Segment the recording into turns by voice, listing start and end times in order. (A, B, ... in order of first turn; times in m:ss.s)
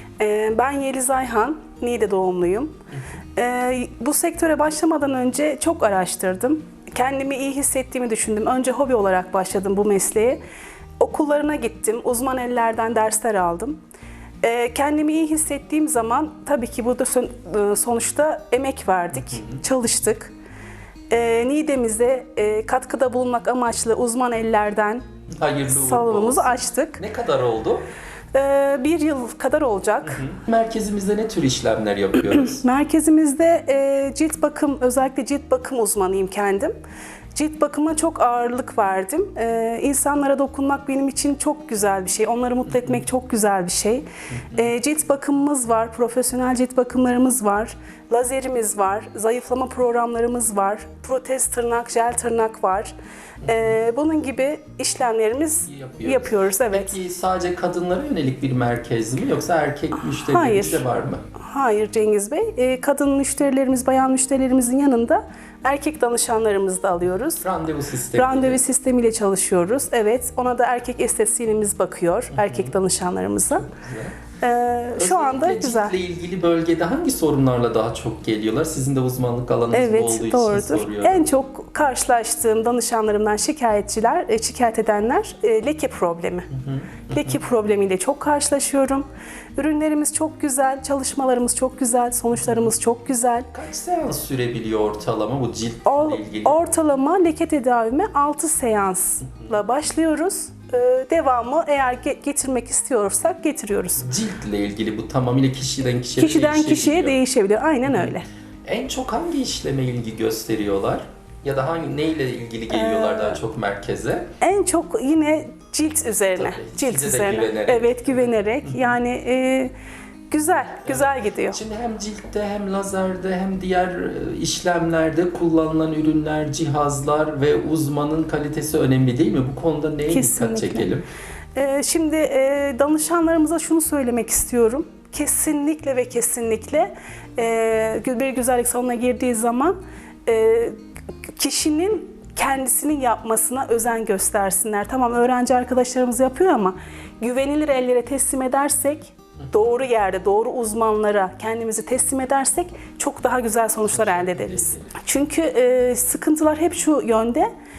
0:00.2-0:02.7 A
0:03.4-0:10.4 A
0:11.0-0:13.8 A
0:14.4-0:20.3 A
0:19.2-0:19.6 B
0:21.1-0:25.0 A
0:25.3-0:27.8 B
0:25.7-0:27.0 A
0:28.3-0:30.2 A
0:30.0-0:32.6 B
0:32.4-0:36.7 A
0:37.3-0:52.9 A
0:44.3-0:44.7 B
0:53.4-0:57.0 A
0:55.7-1:01.2 B
1:00.2-1:00.8 A
1:01.4-1:07.4 A
1:07.4-1:08.6 B
1:08.2-1:13.7 A
1:12.3-1:12.7 B
1:13.5-1:14.2 B
1:14.4-1:16.0 A
1:15.0-1:21.3 B
1:19.7-1:26.5 A
1:26.5-1:27.4 B
1:27.1-1:33.5 A
1:33.5-1:36.6 B
1:35.9-1:44.1 A
1:44.0-1:47.2 B
1:46.2-1:48.3 A
1:48.7-1:54.3 B
1:52.7-1:53.4 A
1:54.4-1:59.7 A
1:56.4-1:58.8 B
2:00.3-2:01.6 A
2:00.8-2:11.1 B
2:10.1-2:10.9 A
2:11.6-2:20.8 A
2:21.4-2:37.5 A
2:33.9-2:35.0 B